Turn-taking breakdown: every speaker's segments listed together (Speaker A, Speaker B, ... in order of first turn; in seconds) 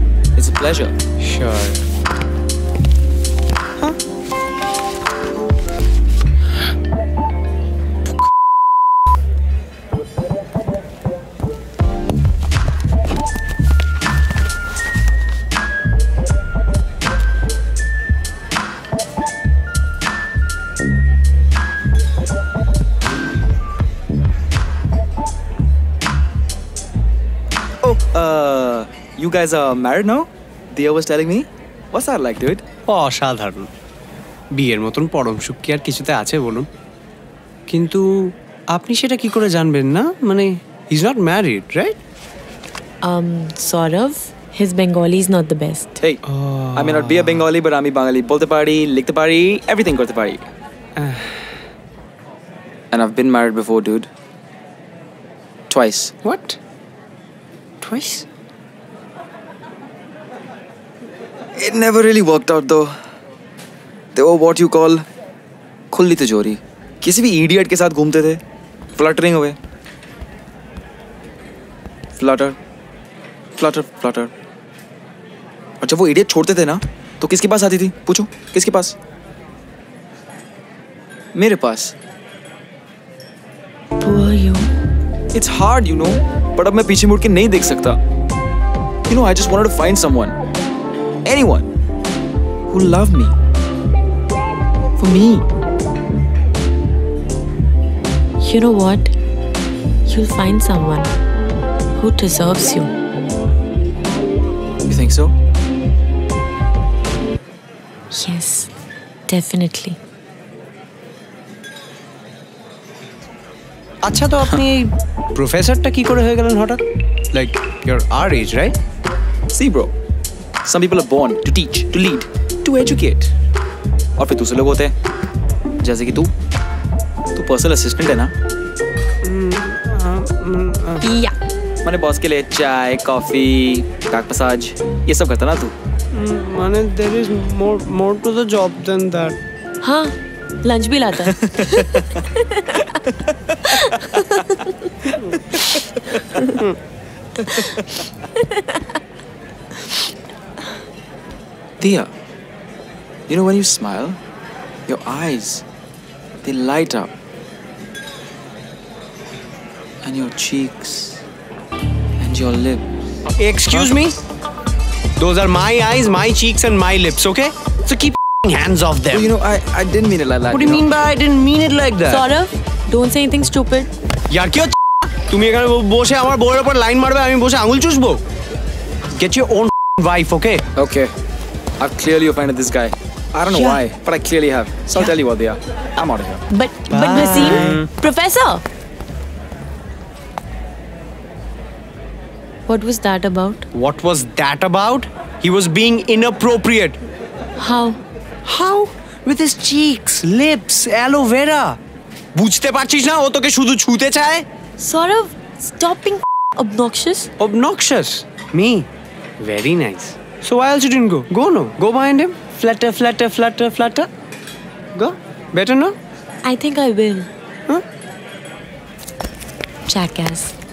Speaker A: 0.4-0.9, 27.8-32.6, 46.7-50.5, 52.9-54.1, 55.7-56.1, 61.6-63.0, 64.2-65.0, 65.9-68.4, 69.0-69.6, 72.2-72.6, 73.6-74.3, 75.8-79.0, 81.3-82.0, 85.3-88.0, 89.1-90.4, 91.2-91.7, 92.7-93.3, 95.0-95.5, 104.9-105.3, 119.5-119.9, 120.6-123.3, 124.2-124.9, 125.8-126.3, 127.3-128.3, 131.8-135.8, 141.3-142.2, 142.8-144.2, 145.1-145.8, 151.8-152.1, 153.3-154.2, 154.9-155.6, 156.4-157.1, 160.0-161.2, 162.2-162.9, 169.1-170.9, 180.8-181.1, 181.8-186.4, 187.4-187.8
Speaker B: 1.2-1.8, 32.9-33.7, 34.5-36.7, 37.7-42.0, 46.3-47.5, 51.0-51.4, 56.2-56.6, 57.8-58.3, 114.0-116.8, 117.3-118.8, 129.2-131.1, 136.1-139.4, 163.4-164.2, 165.2-169.3, 170.5-172.3, 174.3-178.2, 179.2-180.6, 183.5-183.8, 186.9-187.9, 193.7-197.0, 198.4-201.8, 202.3-204.4, 207.4-208.9, 209.4-214.1, 214.9-216.0
Speaker C: 43.0-46.0, 84.0-84.7, 98.4-99.1, 100.1-101.2, 102.0-102.9, 108.1-108.7, 109.3-110.0, 131.0-131.4, 139.8-142.9, 143.7-144.9, 145.8-146.6, 147.4-147.8, 148.4-148.9, 172.1-173.9, 186.5-188.6, 192.7-193.7, 197.6-198.0, 204.8-207.3, 216.4-217.3, 219.9-220.6